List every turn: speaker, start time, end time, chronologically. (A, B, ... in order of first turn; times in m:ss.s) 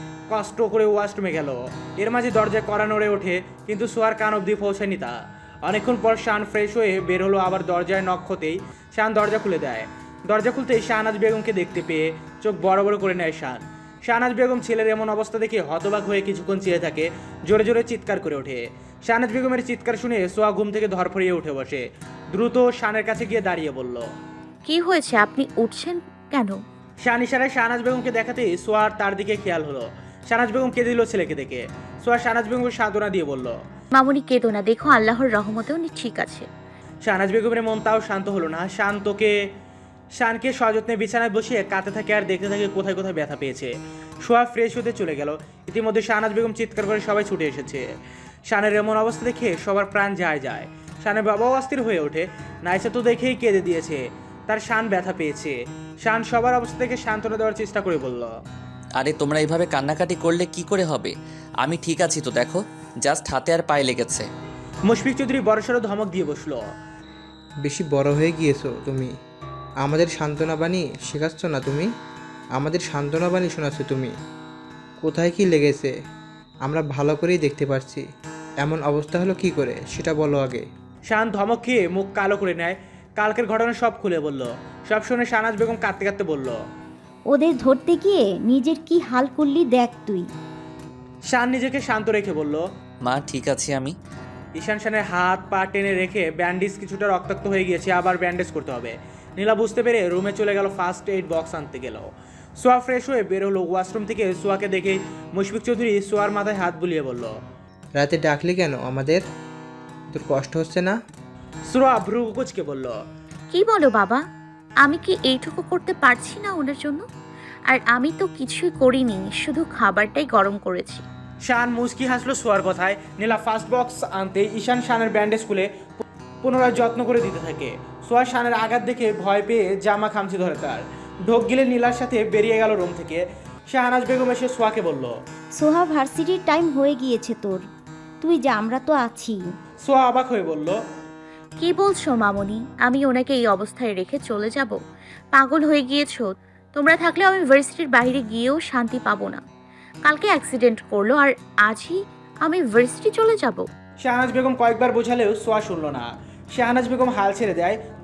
0:00.3-0:05.1 A
0:05.6-0:24.0 A
0:24.6-0:26.6 B
0:27.0-0:33.5 A
0:33.9-0:36.4 B
0:37.0-0:39.3 A
0:40.2-0:43.7 A
0:44.2-0:47.8 A
0:48.5-0:58.3 A
0:59.0-1:04.2 C
1:04.9-1:06.6 A
1:07.6-1:09.1 D
1:09.8-1:11.9 D
1:12.6-1:14.1 D
1:15.0-1:15.9 D
1:16.7-1:18.0 D
1:18.6-1:20.6 D
1:21.1-1:26.6 A
1:27.3-1:30.2 E
1:31.3-1:32.6 A
1:33.0-1:33.9 C
1:34.6-1:42.0 A
1:42.6-1:47.3 A
1:48.0-1:49.2 D
1:50.1-1:50.9 D
1:51.7-1:52.9 A
1:53.5-1:54.2 B
1:54.8-1:57.0 B
1:57.7-2:01.0 B
2:01.4-2:15.1 A
2:15.6-2:17.6 E
2:18.2-2:19.4 E
2:19.8-2:20.8 A
2:21.6-2:24.8 B
2:25.3-2:29.4 B
2:30.0-2:33.6 B
2:34.0-2:37.8 A